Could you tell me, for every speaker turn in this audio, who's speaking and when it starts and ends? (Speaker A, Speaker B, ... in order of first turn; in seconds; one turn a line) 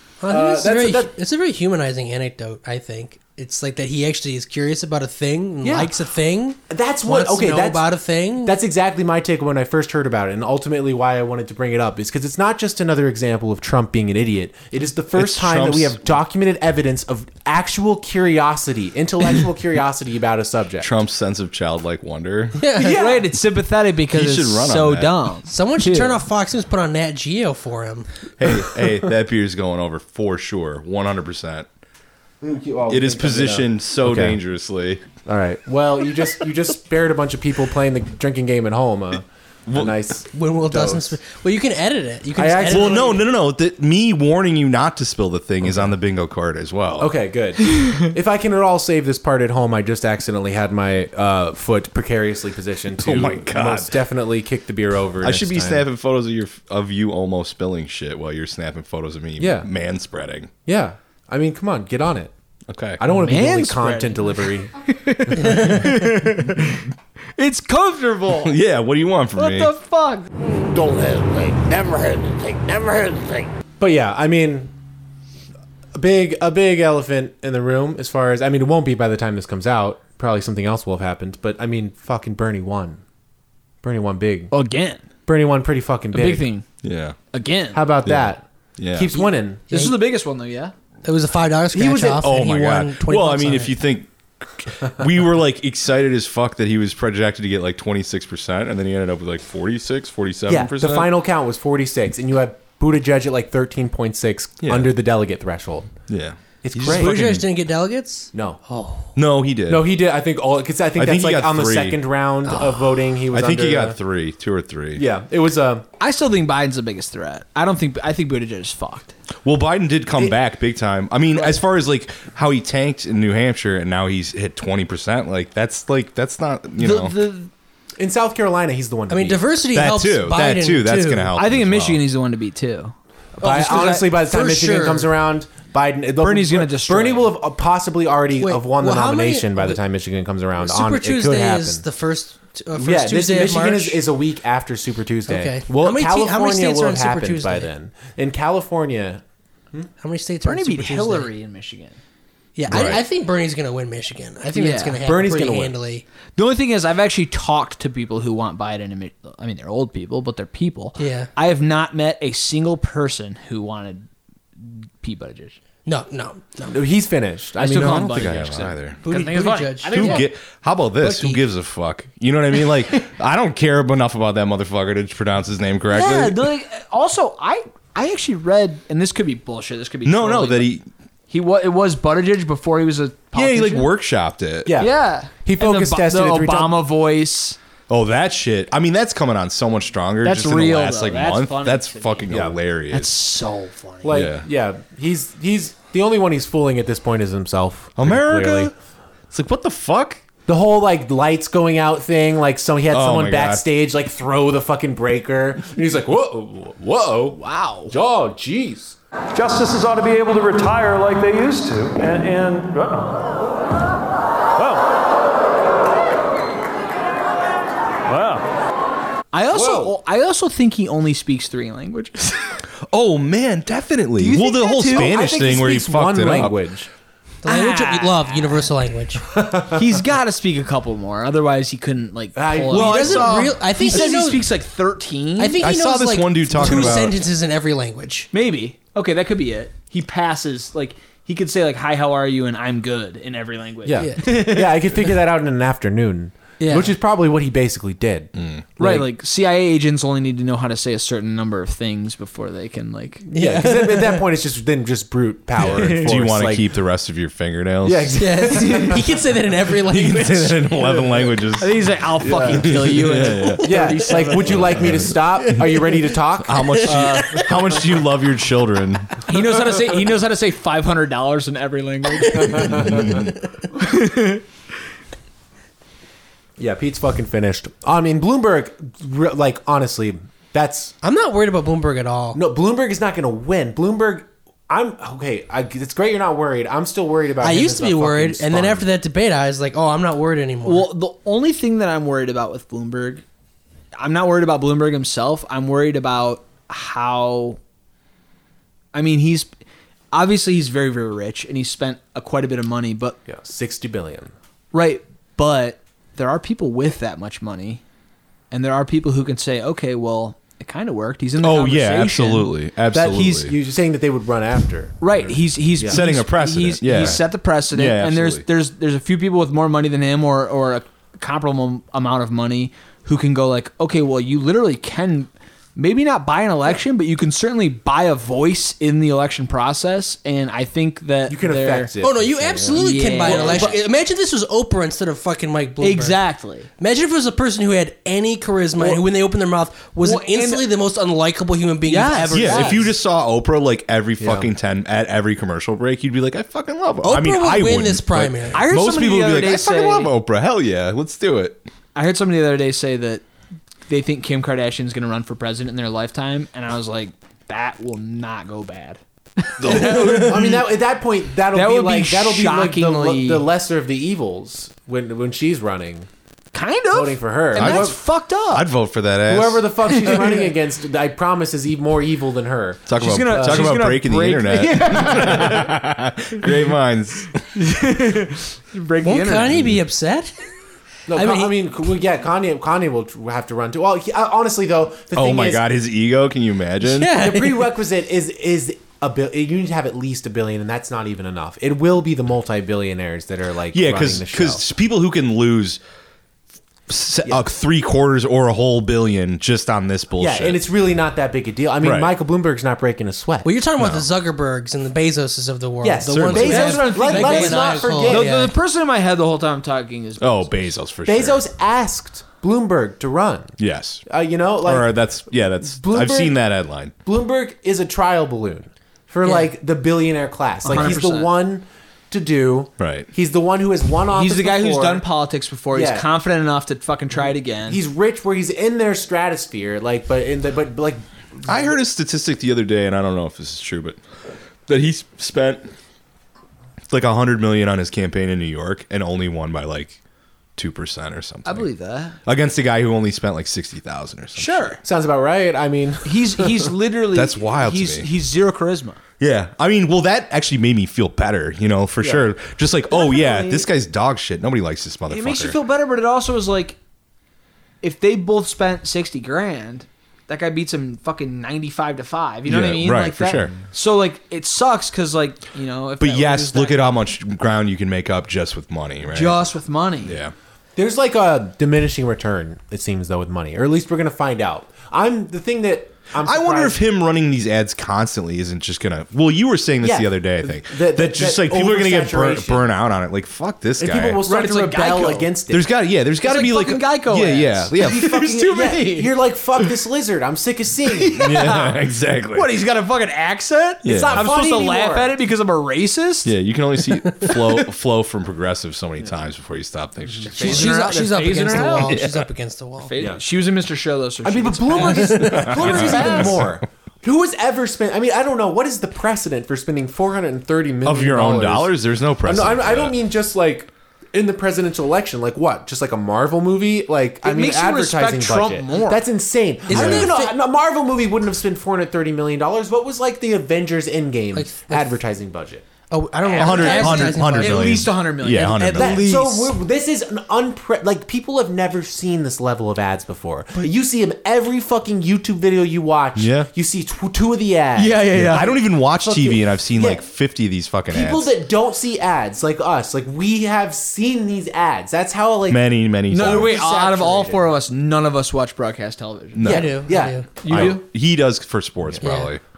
Speaker A: 0.2-8.6
Speaker B: 0.3-1.1
Speaker B: 5.6-5.9
Speaker B: 6.7-7.9
Speaker B: 8.4-20.9
Speaker C: 15.1-16.1
Speaker C: 20.8-22.6
Speaker A: 22.6-23.0
Speaker B: 22.8-23.2
Speaker D: 22.8-26.2
Speaker C: 24.1-25.1
Speaker A: 25.5-28.1
Speaker C: 28.4-31.7
Speaker B: 32.4-34.4
Speaker C: 32.9-35.0
Speaker B: 35.2-41.2
Speaker C: 39.7-40.0
Speaker A: 40.3-43.2
Speaker B: 42.4-43.2
Speaker C: 42.7-47.1
Speaker B: 47.0-55.9
Speaker C: 53.0-54.0
Speaker C: 55.2-60.5
Speaker B: 59.4-59.7
Speaker B: 60.7-62.3
Speaker C: 62.7-63.0
Speaker B: 63.0-64.7
Speaker D: 63.1-66.9
Speaker B: 65.3-65.8
Speaker D: 67.4-68.6
Speaker C: 68.4-69.7
Speaker D: 69.3-70.3
Speaker D: 71.0-73.4
Speaker B: 73.8-74.7
Speaker B: 76.0-83.0
Speaker B: 83.8-84.5
Speaker D: 84.5-85.0
Speaker B: 85.3-86.5
Speaker D: 86.1-86.7
Speaker C: 86.8-87.2
Speaker D: 87.3-87.8
Speaker B: 87.7-89.6
Speaker C: 88.0-89.1
Speaker D: 89.2-90.7
Speaker A: 91.0-93.7
Speaker B: 91.7-92.2
Speaker C: 92.0-101.1
Speaker B: 100.5-106.0
Speaker C: 104.6-104.9
Speaker C: 106.1-107.4
Speaker B: 106.6-107.4
Speaker A: 106.8-109.0
Speaker B: 108.3-108.6
Speaker C: 109.2-109.9
Speaker B: 109.7-114.0
Speaker C: 111.0-112.0
Speaker C: 113.3-115.0
Speaker B: 115.0-115.8
Speaker D: 116.0-119.1
Speaker C: 119.4-127.2
Speaker D: 126.8-127.5
Speaker B: 128.0-129.4
Speaker A: 129.1-131.3
Speaker C: 129.7-132.0
Speaker D: 131.4-134.1
Speaker B: 133.4-141.8
Speaker A: 133.4-135.1
Speaker D: 136.2-137.3
Speaker A: 138.4-139.8
Speaker A: 140.6-144.0
Speaker B: 142.8-149.2
Speaker A: 145.3-147.7
Speaker A: 150.0-151.3
Speaker D: 150.4-152.0
Speaker A: 152.6-156.1
Speaker C: 152.7-153.0
Speaker D: 154.6-155.0
Speaker B: 155.0-155.8
Speaker D: 156.4-164.1
Speaker A: 161.0-161.3
Speaker D: 164.6-165.6
Speaker A: 165.9-166.8
Speaker B: 166.7-168.4
Speaker D: 167.6-170.2
Speaker C: 167.7-169.0
Speaker A: 169.1-170.2
Speaker C: 169.8-176.4
Speaker A: 171.0-171.4
Speaker D: 175.9-180.7
Speaker C: 180.1-180.9
Speaker D: 181.3-183.9
Speaker C: 183.3-184.8
Speaker B: 184.7-186.8
Speaker D: 184.8-187.6
Speaker C: 187.9-193.1
Speaker D: 190.2-192.3
Speaker B: 192.3-192.6
Speaker D: 192.9-194.2
Speaker B: 194.0-198.7
Speaker C: 194.1-194.5
Speaker C: 198.0-198.7
Speaker C: 199.3-200.2
Speaker B: 200.5-207.4
Speaker C: 202.9-203.7
Speaker D: 207.3-207.9
Speaker B: 207.9-208.9
Speaker E: 209.3-213.2
Speaker E: 218.1-218.4
Speaker D: 219.3-222.6
Speaker B: 219.5-219.9
Speaker C: 222.9-226.7
Speaker D: 224.2-225.3
Speaker B: 224.6-226.9
Speaker A: 227.4-229.2
Speaker D: 227.5-228.7
Speaker B: 229.3-229.8
Speaker D: 229.7-235.6
Speaker B: 232.3-234.0
Speaker A: 232.7-234.4
Speaker A: 235.4-238.3
Speaker C: 235.6-237.2
Speaker D: 236.6-237.0
Speaker D: 238.3-245.2
Speaker B: 243.8-249.1
Speaker A: 246.6-246.9
Speaker C: 248.3-248.7
Speaker D: 248.8-253.2
Speaker B: 253.2-256.7
Speaker A: 253.3-254.2
Speaker C: 255.6-258.3
Speaker D: 255.6-256.2
Speaker B: 257.8-259.0
Speaker A: 258.1-260.8
Speaker C: 259.9-263.9
Speaker D: 261.6-265.0
Speaker B: 262.3-262.7
Speaker B: 263.6-267.8
Speaker C: 264.5-265.2
Speaker A: 265.5-265.9
Speaker C: 266.4-269.2
Speaker A: 266.7-267.5
Speaker D: 269.3-273.1
Speaker B: 272.4-273.2
Speaker C: 272.8-273.3
Speaker D: 273.8-274.4
Speaker B: 276.6-280.9
Speaker A: 281.0-282.4
Speaker B: 282.4-288.9
Speaker A: 287.4-290.9
Speaker D: 290.6-293.2
Speaker D: 294.0-297.6
Speaker D: 298.9-299.5
Speaker D: 300.1-303.2
Speaker B: 303.3-304.3
Speaker D: 304.7-307.8
Speaker D: 308.5-312.5
Speaker C: 311.4-313.6
Speaker B: 312.9-316.0
Speaker D: 313.1-313.4
Speaker D: 315.0-331.9
Speaker C: 315.9-318.4
Speaker B: 331.3-333.8
Speaker A: 332.0-336.2
Speaker D: 332.8-333.8
Speaker D: 335.8-336.7
Speaker A: 336.8-342.9
Speaker D: 340.0-340.6
Speaker D: 341.9-342.9
Speaker C: 342.3-351.7
Speaker B: 344.2-344.5
Speaker A: 347.0-348.6
Speaker D: 348.5-350.1
Speaker D: 351.9-353.2
Speaker D: 353.9-360.6
Speaker C: 359.6-360.6
Speaker B: 359.6-366.1
Speaker D: 361.5-363.5
Speaker D: 366.5-368.7
Speaker B: 366.9-368.0
Speaker C: 367.6-370.0
Speaker B: 369.3-373.9
Speaker D: 370.0-370.4
Speaker C: 372.9-377.4
Speaker D: 373.0-375.8
Speaker D: 377.6-379.6
Speaker A: 379.0-380.3
Speaker B: 381.1-385.6
Speaker A: 381.1-381.5
Speaker C: 385.1-387.2
Speaker A: 386.8-387.7
Speaker B: 387.1-394.6
Speaker C: 393.7-395.8
Speaker C: 396.9-400.6
Speaker B: 400.2-403.5
Speaker C: 401.8-402.1
Speaker A: 403.4-408.5
Speaker C: 403.8-404.1
Speaker B: 405.8-408.3
Speaker C: 406.1-406.7
Speaker D: 406.3-410.7
Speaker C: 410.2-411.4
Speaker B: 411.1-413.6
Speaker C: 413.6-414.1
Speaker B: 414.1-416.4
Speaker C: 414.6-416.9
Speaker B: 417.0-425.0
Speaker A: 419.2-419.5
Speaker D: 420.6-421.3
Speaker C: 420.7-421.0
Speaker C: 422.8-423.1
Speaker D: 424.1-427.8
Speaker B: 425.7-426.1
Speaker B: 427.7-431.8
Speaker C: 431.5-434.0
Speaker C: 434.7-435.7
Speaker C: 436.9-440.0
Speaker C: 440.6-441.7
Speaker D: 441.4-442.2
Speaker C: 442.2-444.8
Speaker D: 444.4-444.8
Speaker B: 444.8-446.7
Speaker D: 446.0-449.0
Speaker C: 447.1-448.1
Speaker C: 449.2-455.6
Speaker B: 452.0-452.3
Speaker D: 452.9-453.6
Speaker D: 455.1-456.8
Speaker D: 457.8-467.0
Speaker C: 462.5-463.6
Speaker C: 466.0-469.4
Speaker D: 469.1-470.2
Speaker C: 470.0-470.3
Speaker B: 470.8-476.8
Speaker C: 476.2-484.2
Speaker B: 479.8-482.7
Speaker B: 483.8-485.6
Speaker D: 484.3-485.3
Speaker C: 485.5-488.2
Speaker D: 486.2-489.6
Speaker B: 487.8-491.5
Speaker D: 490.9-496.3
Speaker C: 491.2-492.5
Speaker C: 493.8-494.3
Speaker B: 493.9-495.1
Speaker C: 496.2-500.7
Speaker D: 497.2-497.6
Speaker B: 500.1-500.9
Speaker D: 500.3-502.0
Speaker A: 500.4-502.9
Speaker C: 501.8-502.3
Speaker D: 502.9-506.4
Speaker B: 503.0-503.2
Speaker B: 504.2-525.7
Speaker C: 505.1-506.6
Speaker C: 510.8-513.0
Speaker D: 517.2-519.0
Speaker A: 519.7-520.3
Speaker C: 519.7-520.1
Speaker A: 524.3-525.0
Speaker A: 525.9-527.7
Speaker D: 526.2-529.6
Speaker C: 526.4-529.1
Speaker B: 528.7-540.0
Speaker C: 536.2-536.5
Speaker D: 537.8-538.5
Speaker C: 538.1-541.3
Speaker B: 540.9-547.6
Speaker C: 545.5-546.6
Speaker D: 546.1-549.7
Speaker C: 549.3-549.9
Speaker B: 549.4-550.8
Speaker A: 549.5-550.3
Speaker D: 550.4-550.9
Speaker C: 550.4-552.4
Speaker A: 552.0-552.3